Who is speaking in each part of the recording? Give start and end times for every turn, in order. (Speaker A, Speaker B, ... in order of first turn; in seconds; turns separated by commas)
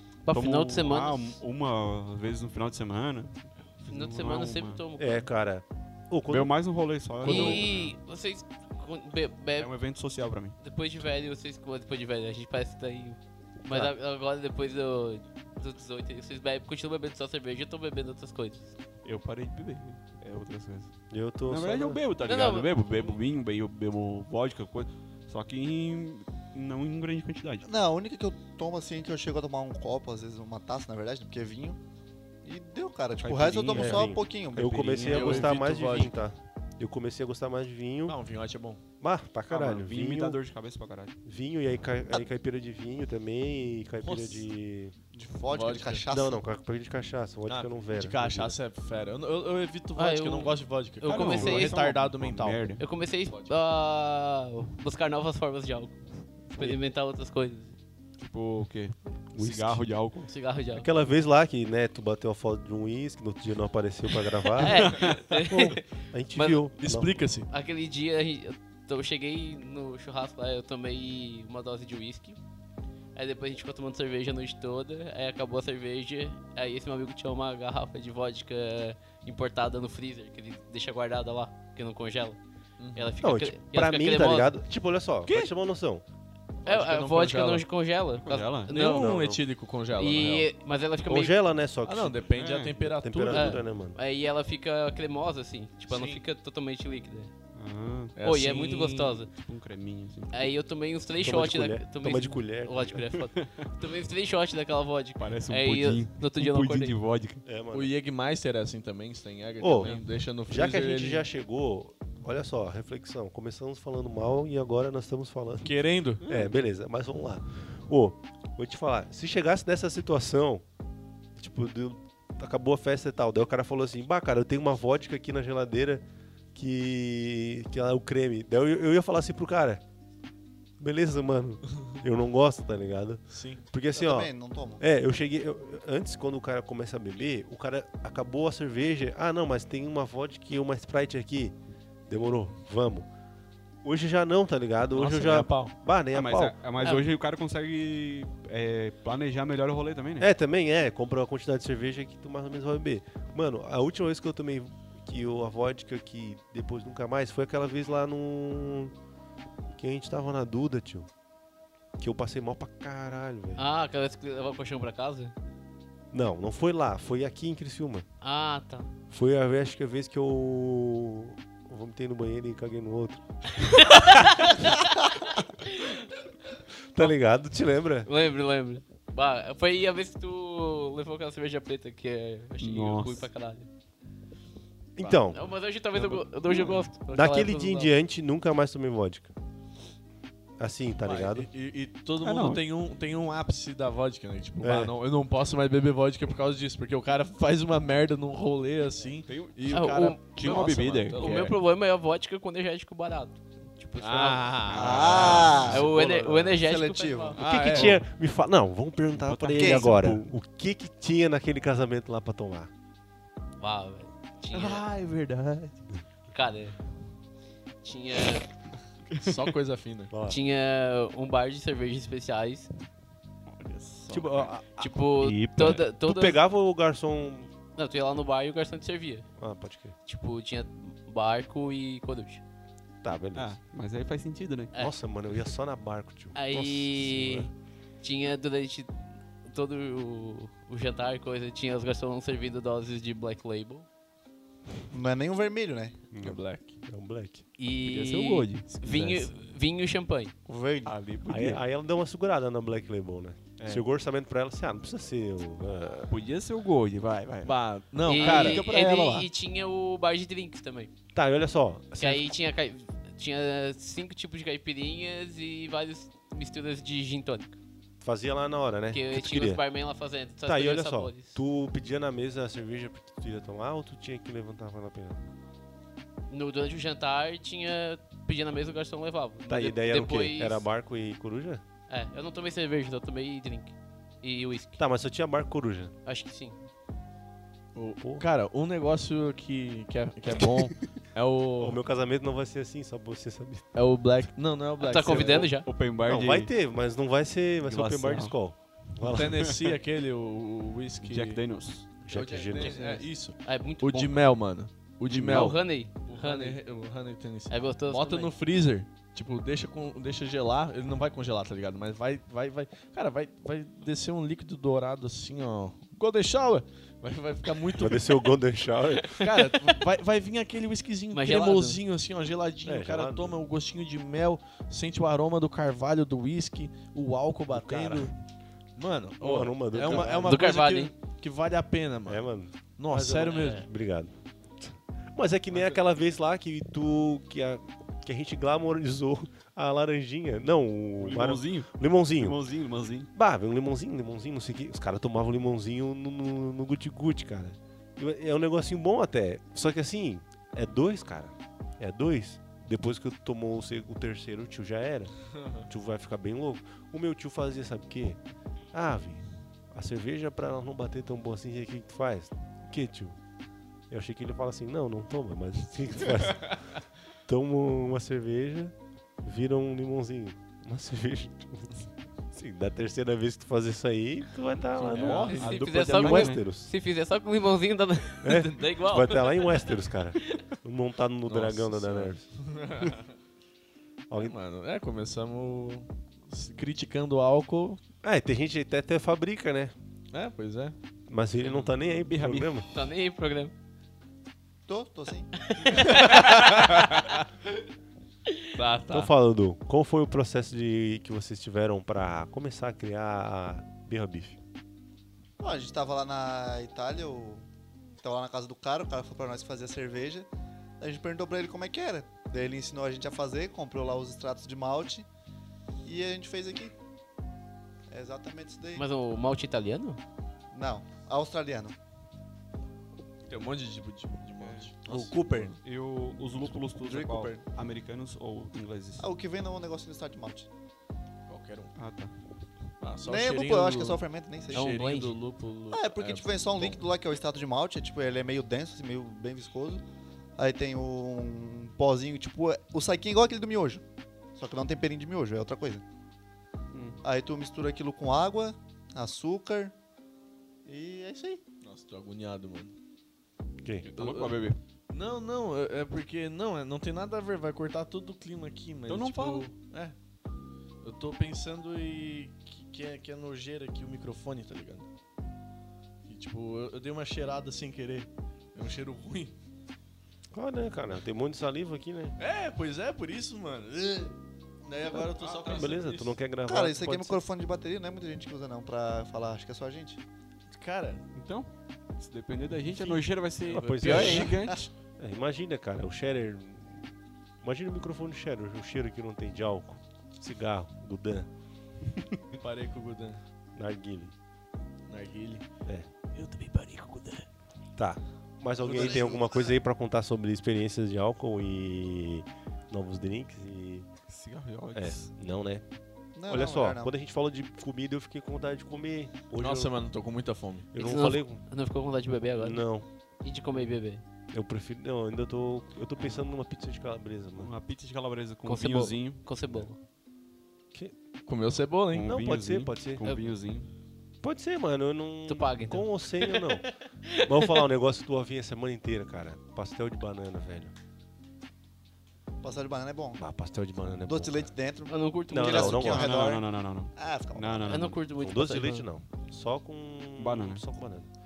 Speaker A: 0.2-1.3, Speaker B: 0.3-4.8, Speaker A: 3.9-5.3, Speaker C: 5.0-6.5, Speaker B: 6.3-7.9, Speaker A: 7.2-9.7, Speaker C: 7.2-7.7, Speaker B: 9.6-10.6, Speaker A: 10.6-18.7, Speaker B: 19.0-20.9, Speaker C: 21.1-22.0, Speaker B: 21.4-27.7, Speaker A: 22.2-23.1, Speaker D: 27.6-31.8, Speaker D: 32.4-35.5, Speaker B: 33.2-35.4, Speaker C: 33.7-38.2, Speaker E: 35.0-36.2, Speaker E: 38.1-38.8, Speaker C: 39.0-40.4, Speaker B: 39.5-41.1, Speaker C: 41.2-44.9, Speaker E: 44.0-44.4, Speaker D: 45.1-46.4, Speaker E: 45.4-46.0, Speaker C: 46.1-48.6, Speaker E: 47.5-53.6, Speaker A: 50.0-51.8, Speaker B: 51.0-52.8, Speaker A: 52.8-57.7, Speaker B: 58.2-60.3, Speaker C: 59.4-59.8, Speaker A: 60.3-60.9, Speaker C: 60.8-67.1, Speaker A: 64.5-66.7, Speaker B: 64.6-65.2, Speaker E: 66.8-67.5, Speaker A: 67.5-72.4, Speaker A: 73.1-82.4, Speaker E: 82.8-83.1, Speaker A: 82.9-84.5, Speaker C: 83.2-86.0, Speaker E: 86.7-87.7, Speaker A: 86.7-89.1, Speaker B: 88.2-88.7, Speaker E: 88.7-90.5, Speaker C: 88.8-89.4, Speaker A: 90.0-91.3, Speaker C: 91.0-92.2, Speaker E: 91.8-93.6, Speaker B: 92.4-92.7, Speaker C: 92.8-94.0, Speaker A: 93.3-97.3, Speaker E: 95.9-96.2, Speaker B: 97.5-98.2, Speaker E: 98.2-99.2, Speaker A: 98.2-99.3, Speaker B: 99.3-100.5, Speaker A: 100.3-107.0, Speaker C: 101.2-103.0, Speaker B: 103.1-103.7, Speaker B: 105.2-107.4, Speaker C: 107.4-107.9, Speaker E: 107.7-111.3, Speaker C: 109.6-109.9, Speaker C: 110.5-115.7, Speaker E: 115.6-116.2, Speaker B: 116.2-116.5, Speaker C: 116.2-120.6, Speaker C: 121.3-129.8, Speaker C: 130.8-141.5, Speaker E: 133.3-133.6, Speaker D: 133.9-134.8, Speaker C: 142.1-143.1, Speaker C: 143.8-146.6, Speaker E: 144.9-145.7, Speaker B: 146.1-150.3, Speaker A: 146.8-147.1, Speaker C: 150.2-158.9, Speaker C: 159.8-161.1, Speaker C: 162.0-163.6, Speaker A: 163.6-165.3, Speaker C: 166.1-168.1, Speaker A: 168.2-168.9, Speaker C: 169.1-173.2, Speaker A: 173.6-176.1, Speaker C: 173.7-174.2, Speaker C: 176.9-178.1, Speaker A: 178.1-183.7, Speaker B: 182.6-183.3, Speaker C: 184.9-185.5, Speaker A: 185.3-187.9, Speaker E: 185.9-186.7, Speaker C: 187.1-189.3, Speaker C: 190.6-191.5, Speaker E: 191.0-201.6, Speaker B: 192.2-192.6, Speaker C: 194.6-194.9, Speaker B: 199.3-201.3, Speaker A: 199.7-207.9, Speaker E: 204.0-206.3, Speaker B: 204.7-205.7, Speaker D: 204.7-207.4, Speaker E: 207.3-208.0, Speaker C: 207.4-212.7, Speaker B: 209.2-210.2, Speaker D: 209.5-209.9, Speaker A: 213.6-214.9, Speaker B: 214.5-215.7, Speaker A: 216.3-216.8, Speaker A: 217.8-218.5, Speaker B: 219.1-219.4, Speaker E: 219.2-220.1, Speaker C: 220.1-220.4, Speaker A: 220.2-222.7, Speaker B: 223.5-224.5, Speaker C: 224.1-227.5, Speaker A: 224.8-226.4, Speaker A: 227.8-229.3, Speaker C: 229.4-229.9, Speaker A: 230.1-232.4, Speaker C: 233.0-233.5, Speaker B: 233.3-234.7, Speaker C: 234.8-237.5, Speaker A: 236.3-237.5, Speaker A: 238.0-243.8, Speaker D: 244.9-246.0, Speaker C: 246.1-247.4, Speaker E: 246.2-246.8, Speaker A: 247.6-250.3, Speaker B: 247.8-249.2, Speaker D: 250.5-250.9, Speaker B: 250.8-251.6, Speaker C: 251.3-256.1, Speaker B: 253.6-253.8, Speaker B: 256.1-257.5, Speaker E: 257.4-258.7, Speaker A: 258.1-260.9, Speaker B: 258.1-259.3, Speaker C: 261.1-262.3, Speaker A: 262.0-267.6, Speaker C: 268.0-269.6, Speaker A: 268.9-271.4, Speaker C: 270.4-275.2, Speaker A: 276.3-280.6, Speaker C: 279.5-281.6, Speaker A: 281.9-284.8, Speaker C: 284.8-285.9, Speaker A: 286.1-286.6, Speaker E: 287.7-291.8, Speaker C: 291.6-293.7, Speaker E: 293.7-295.5, Speaker A: 294.8-295.7, Speaker B: 295.4-296.5, Speaker C: 296.1-299.6, Speaker B: 297.6-298.4, Speaker E: 299.0-301.4, Speaker B: 301.0-301.9, Speaker E: 302.1-318.2, Speaker C: 302.1-302.9, Speaker A: 302.2-304.2, Speaker B: 305.1-305.5, Speaker A: 305.2-306.6, Speaker A: 307.5-308.3, Speaker C: 317.7-319.2, Speaker E: 319.2-328.1, Speaker A: 321.1-321.8, Speaker C: 322.6-323.4, Speaker C: 327.5-328.1, Speaker E: 328.8-333.6, Speaker C: 329.2-330.4, Speaker A: 329.8-330.9, Speaker C: 332.1-342.4, Speaker B: 341.0-343.1, Speaker C: 343.1-358.2, Speaker E: 355.3-355.7, Speaker C: 358.7-363.2, Speaker C: 363.9-366.7, Speaker C: 367.2-371.8, Speaker C: 372.3-376.7, Speaker E: 374.8-375.4, Speaker B: 374.9-376.4, Speaker A: 375.0-380.4, Speaker C: 378.2-382.3, Speaker E: 381.3-383.1, Speaker C: 384.1-384.3, Speaker E: 384.2-387.8, Speaker C: 388.0-389.7, Speaker E: 390.1-390.8, Speaker C: 391.1-392.7, Speaker B: 392.1-392.6, Speaker A: 392.7-393.5, Speaker D: 394.7-395.3, Speaker A: 395.3-396.9, Speaker E: 395.7-397.0, Speaker A: 398.3-399.1, Speaker C: 398.9-404.4, Speaker D: 405.4-407.4, Speaker D: 408.0-410.3, Speaker D: 410.8-415.1, Speaker D: 415.8-416.7, Speaker D: 417.9-418.9, Speaker A: 418.8-420.0, Speaker D: 420.5-421.8, Speaker E: 423.3-425.5, Speaker B: 424.4-424.7, Speaker C: 424.9-425.5, Speaker B: 425.6-429.1, Speaker D: 426.8-427.4, Speaker D: 429.0-430.5, Speaker E: 431.3-431.7, Speaker B: 431.8-432.1, Speaker E: 432.8-436.8, Speaker D: 433.1-434.7, Speaker A: 434.5-435.2, Speaker D: 435.7-439.8, Speaker D: 440.4-443.8, Speaker D: 444.4-445.8, Speaker B: 446.7-447.0, Speaker D: 447.0-449.7, Speaker D: 450.6-451.4, Speaker E: 451.6-452.7, Speaker B: 453.8-454.6, Speaker E: 453.9-454.4, Speaker E: 454.9-459.9, Speaker B: 458.9-459.5, Speaker E: 460.8-464.9, Speaker E: 466.1-469.4, Speaker C: 470.3-472.1, Speaker E: 472.2-476.1, Speaker C: 475.4-477.2, Speaker D: 476.4-480.0, Speaker E: 480.5-481.0, Speaker B: 481.1-484.7, Speaker E: 482.6-484.3, Speaker C: 483.5-486.9, Speaker A: 483.9-484.2, Speaker D: 484.2-484.6, Speaker C: 487.4-491.3, Speaker E: 492.3-493.2, Speaker C: 493.6-494.1, Speaker E: 494.9-495.4, Speaker E: 496.2-497.2, Speaker C: 497.8-503.9, Speaker D: 498.6-499.6, Speaker B: 504.1-505.1, Speaker C: 504.7-505.6, Speaker D: 506.1-506.9, Speaker C: 506.3-509.7, Speaker E: 509.4-510.7, Speaker C: 510.7-511.4, Speaker A: 510.7-512.6, Speaker C: 512.4-512.9, Speaker A: 513.2-514.0, Speaker C: 514.3-517.5, Speaker B: 517.4-519.2, Speaker A: 518.4-519.8, Speaker E: 521.2-522.1, Speaker B: 521.9-523.7, Speaker C: 522.0-523.0, Speaker C: 524.2-526.7, Speaker A: 525.3-527.6, Speaker C: 527.2-530.7, Speaker D: 532.4-533.2, Speaker C: 533.2-534.5, Speaker D: 534.0-536.4, Speaker A: 534.9-535.9, Speaker C: 535.3-536.2, Speaker B: 535.5-538.0, Speaker D: 537.0-537.8, Speaker A: 537.6-538.9, Speaker C: 538.2-541.1, Speaker B: 540.2-540.6